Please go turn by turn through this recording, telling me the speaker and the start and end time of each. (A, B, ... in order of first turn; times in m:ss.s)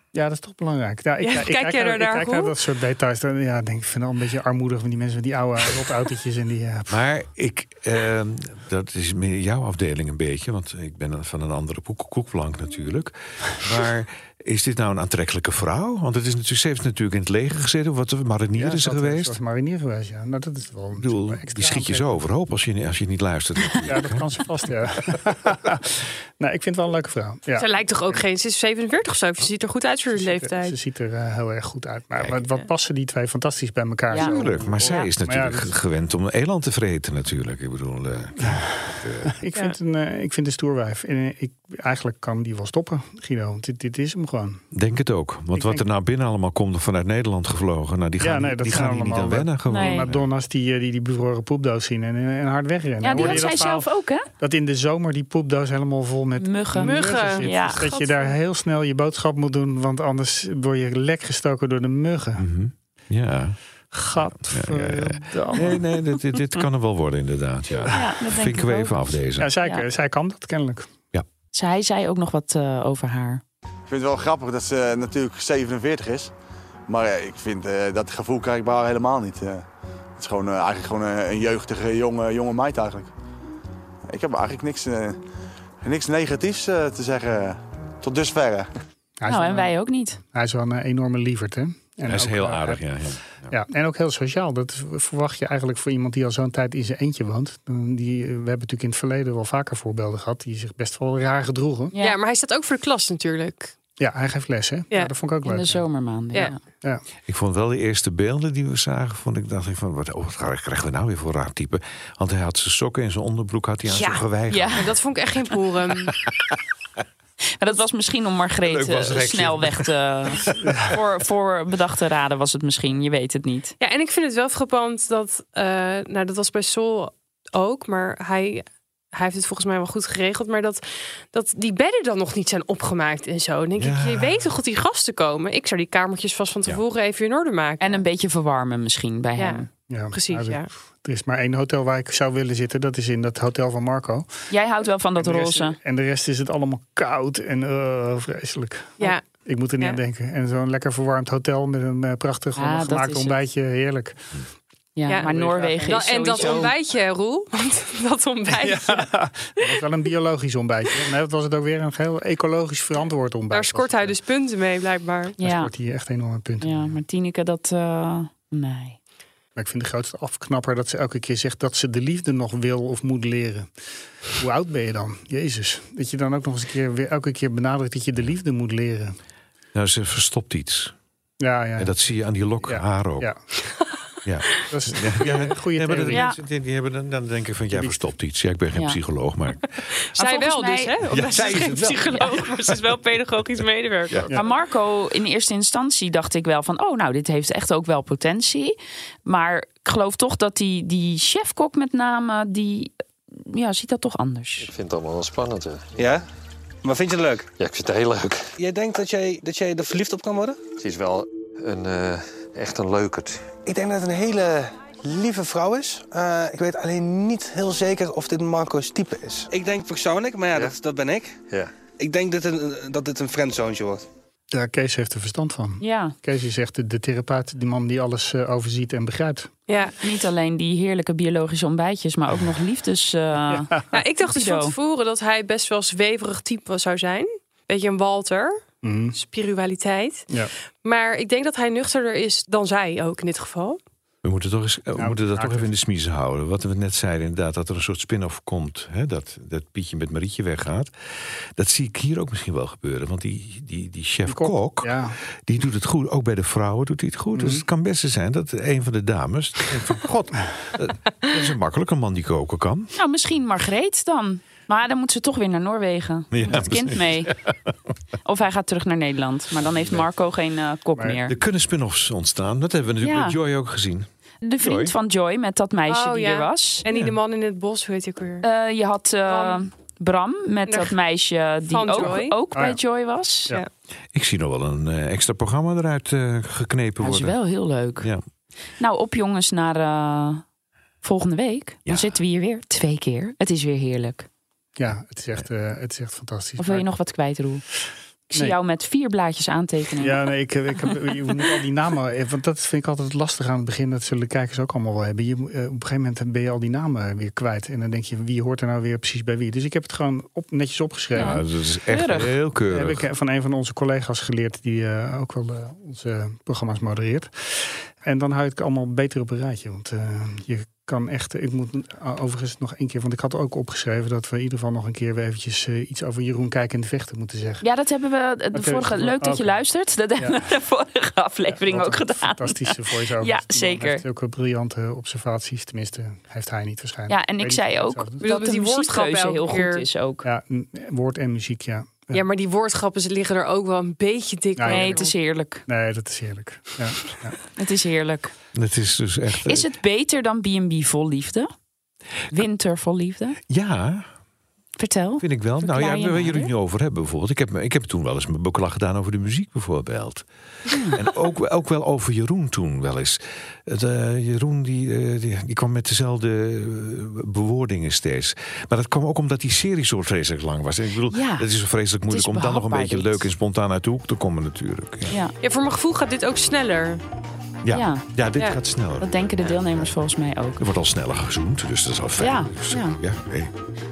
0:00.1-0:07.0 A
0:01.2-0:02.6 B
0:06.9-0:19.4 C
0:18.6-0:22.1 A
0:21.0-0:24.3 C
0:23.8-0:28.2 A
0:27.6-0:30.8 B
0:30.1-0:35.7 A
0:34.1-0:35.1 D
0:34.2-0:39.3 C
0:39.2-0:44.6 A
0:44.7-0:50.3 C
0:45.6-0:45.8 A
0:48.2-0:53.9 A
0:49.7-0:50.1 D
0:53.0-0:54.3 D
0:54.4-1:02.5 A
0:56.4-0:57.9 D
0:56.8-0:58.4 B
1:02.4-1:03.6 C
1:03.9-1:05.9 A
1:04.5-1:09.5 C
1:07.9-1:09.0 D
1:09.4-1:10.9 A
1:11.5-1:13.4 D
1:13.9-1:16.3 E
1:16.9-1:19.6 E
1:20.2-1:23.1 E
1:24.1-1:25.2 E
1:25.8-1:28.7 E
1:29.2-1:32.8 A
1:29.3-1:30.2 D
1:32.1-1:33.5 C
1:33.5-1:41.9 A
1:41.9-1:42.2 D
1:42.0-1:43.7 B
1:44.0-1:45.8 A
1:45.4-1:46.6 D
1:47.3-1:55.0 C
1:53.9-1:54.2 B
1:54.5-1:54.9 D
1:54.8-1:56.2 B
1:56.1-1:56.6 C
1:57.6-2:03.7 D
1:58.6-2:01.0 C
2:03.8-2:18.0 B
2:13.8-2:14.5 C
2:17.8-2:19.7 D
2:19.4-2:20.7 B
2:19.9-2:24.3 A
2:24.5-2:25.8 D
2:25.2-2:34.2 A
2:29.0-2:29.2 B
2:32.6-2:33.4 D
2:35.0-2:36.7 D
2:35.1-2:39.1 B
2:35.2-2:36.7 A
2:38.5-2:44.2 A
2:43.5-2:45.4 B
2:45.4-2:45.7 D
2:45.4-2:46.9 A
2:46.6-2:49.0 D
2:49.6-2:53.7 A
2:54.3-2:59.2 A
2:59.7-3:01.0 C
3:01.4-3:01.9 A
3:01.8-3:03.3 C
3:02.6-3:03.4 A
3:04.2-3:09.7 C
3:04.7-3:06.3 A
3:06.1-3:06.4 D
3:10.2-3:14.3 B
3:10.2-3:11.0 D
3:11.1-3:12.9 C
3:14.3-3:24.7 D
3:24.6-3:26.1 F
3:26.0-3:26.2 G
3:26.8-3:27.5 G
3:27.6-3:28.5 F
3:28.6-3:30.7 G
3:30.8-3:33.6 F
3:33.6-3:41.4 G
3:42.0-3:44.0 G
3:44.5-3:49.5 A
3:45.8-3:46.2 D
3:49.7-3:50.0 B
3:50.0-3:54.7 D
3:53.5-3:53.8 A
3:53.9-3:58.6 B
3:58.8-3:59.2 A
3:59.2-4:00.3 B
4:00.8-4:03.8 B
4:04.2-4:10.9 C
4:05.0-4:05.7 A
4:11.6-4:22.9 C
4:14.3-4:15.2 A
4:17.3-4:17.6 A
4:23.0-4:27.3 D
4:26.3-4:27.6 C
4:28.2-4:31.3 D
4:29.7-4:30.0 C
4:31.3-4:34.1 C
4:33.0-4:33.4 D
4:34.4-4:36.8 D
4:34.6-4:34.9 C
4:35.9-4:38.4 B
4:36.9-4:37.2 C
4:38.4-4:43.6 D
4:39.3-4:39.6 B
4:40.7-4:41.0 B
4:41.7-4:42.4 B
4:42.0-4:42.8 A
4:44.1-4:47.4 C
4:47.0-4:48.1 D
4:48.8-4:50.4 D
4:51.0-4:54.3 D
4:51.9-4:52.1 C
4:54.8-4:56.9 A
4:56.6-4:57.6 D
4:58.3-5:00.2 D
5:00.0-5:11.4 A
5:11.2-5:12.4 D
5:11.2-5:13.1 C
5:12.7-5:27.6 A
5:27.6-5:34.0 D
5:28.5-5:29.6 A
5:30.2-5:30.4 A
5:31.5-5:38.2 A
5:37.1-5:40.3 D
5:38.2-5:39.9 B
5:40.2-5:42.2 A
5:42.1-5:45.1 B
5:44.6-5:45.1 A
5:44.7-5:45.6 D
5:45.7-5:47.4 A
5:47.6-5:48.3 D
5:48.5-5:49.7 C
5:49.4-5:51.5 D
5:52.3-5:53.4 D
5:53.5-5:54.1 C
5:54.8-5:56.5 D
5:55.2-6:00.3 C
6:00.7-6:01.0 D
6:00.9-6:15.2 C
6:11.1-6:11.5 D
6:12.1-6:13.3 D
6:15.1-6:15.4 D
6:15.4-6:17.0 B
6:17.6-6:19.9 C
6:17.7-6:18.0 D
6:19.0-6:20.6 D
6:20.6-6:23.5 C
6:22.2-6:23.0 D